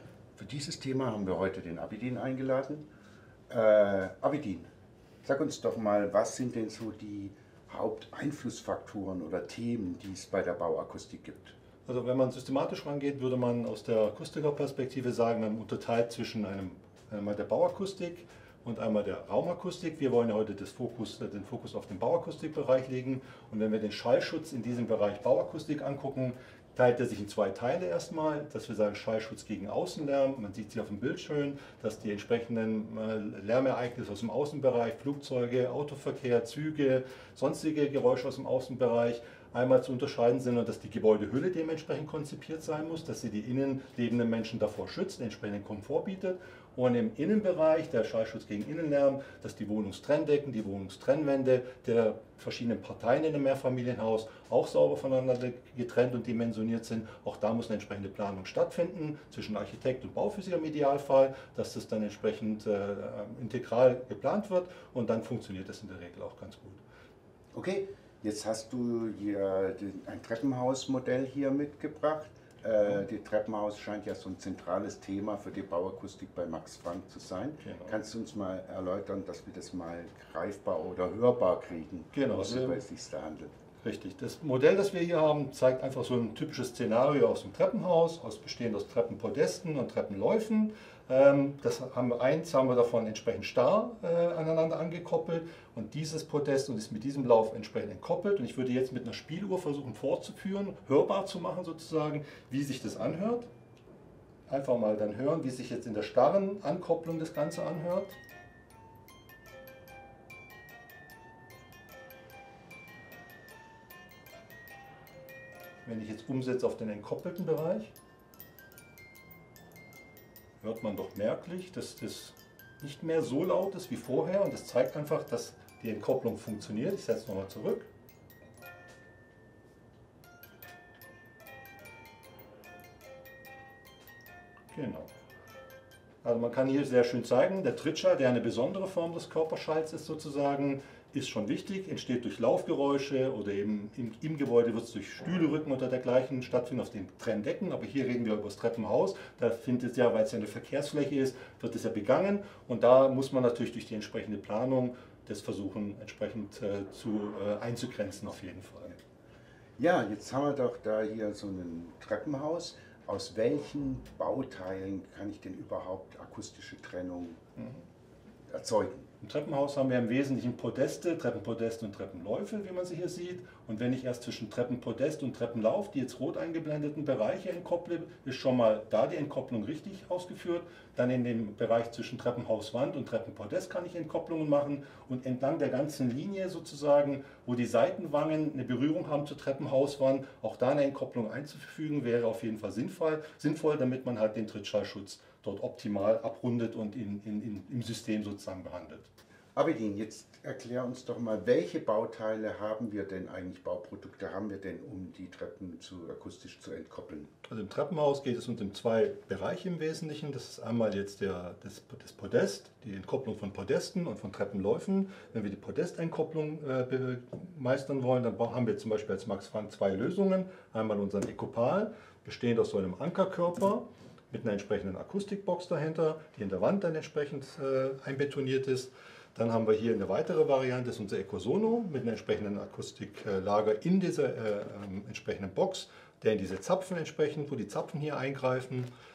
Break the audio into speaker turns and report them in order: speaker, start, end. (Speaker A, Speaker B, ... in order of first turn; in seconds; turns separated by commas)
Speaker A: 0.4-2.9, Speaker A: 3.5-4.7, Speaker A: 5.2-11.6, Speaker B: 11.8-66.8, Speaker A: 67.5-83.5, Speaker B: 77.6-78.0, Speaker B: 82.1-82.8, Speaker B: 83.8-103.5, Speaker B: 104.5-108.2, Speaker B: 115.8-117.9, Speaker B: 120.6-127.9, Speaker B: 134.7-135.1, Speaker B: 136.2-159.0, Speaker A: 159.8-167.4, Speaker B: 167.6-167.8, Speaker A: 168.5-169.1, Speaker B: 169.2-199.1, Speaker A: 199.5-207.3, Speaker B: 207.5-238.9